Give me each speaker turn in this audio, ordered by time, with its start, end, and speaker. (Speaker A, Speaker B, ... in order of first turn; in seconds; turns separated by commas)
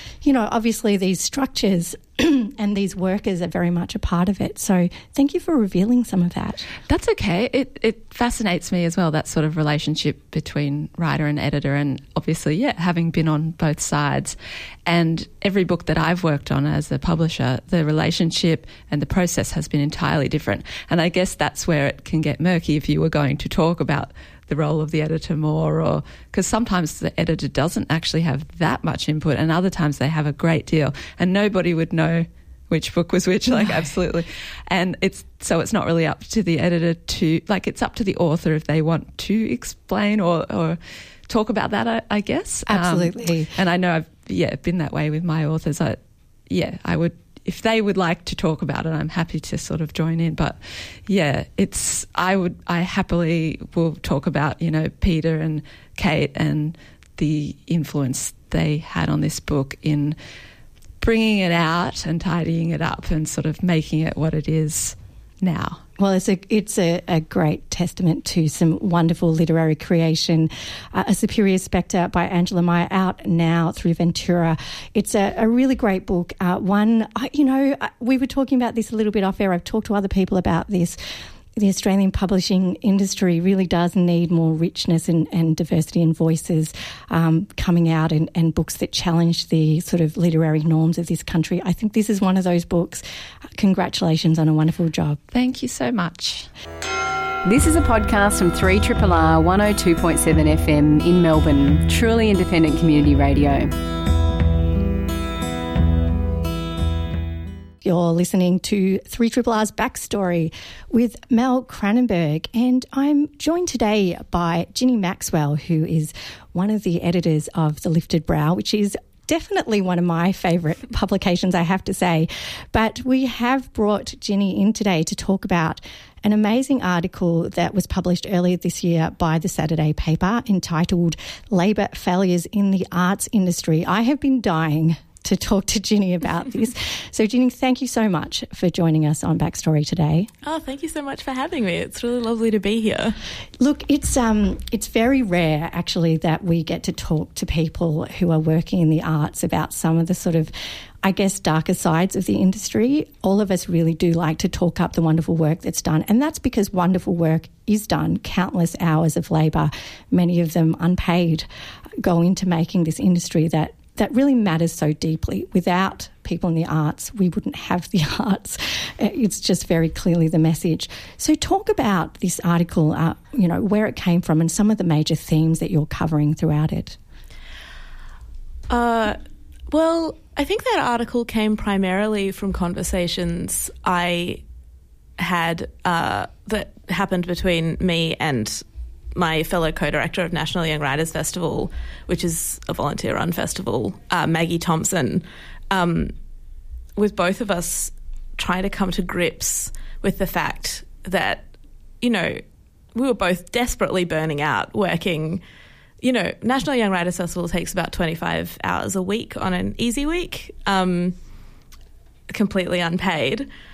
Speaker A: 0.2-6.7, Speaker B: 6.9-14.3, Speaker B: 14.8-60.1, Speaker A: 42.7-43.5, Speaker B: 61.0-65.8, Speaker A: 66.0-81.0, Speaker A: 81.5-93.0, Speaker A: 93.6-95.2, Speaker B: 95.3-96.5, Speaker C: 97.4-103.7, Speaker A: 107.8-140.3, Speaker D: 140.4-143.2, Speaker A: 143.6-150.5, Speaker A: 151.0-161.5, Speaker A: 162.0-177.0, Speaker D: 178.7-179.2, Speaker D: 179.7-184.4, Speaker D: 185.2-196.1, Speaker D: 196.9-201.5, Speaker D: 202.0-202.4, Speaker D: 202.9-205.4, Speaker D: 206.0-211.2, Speaker D: 212.3-213.5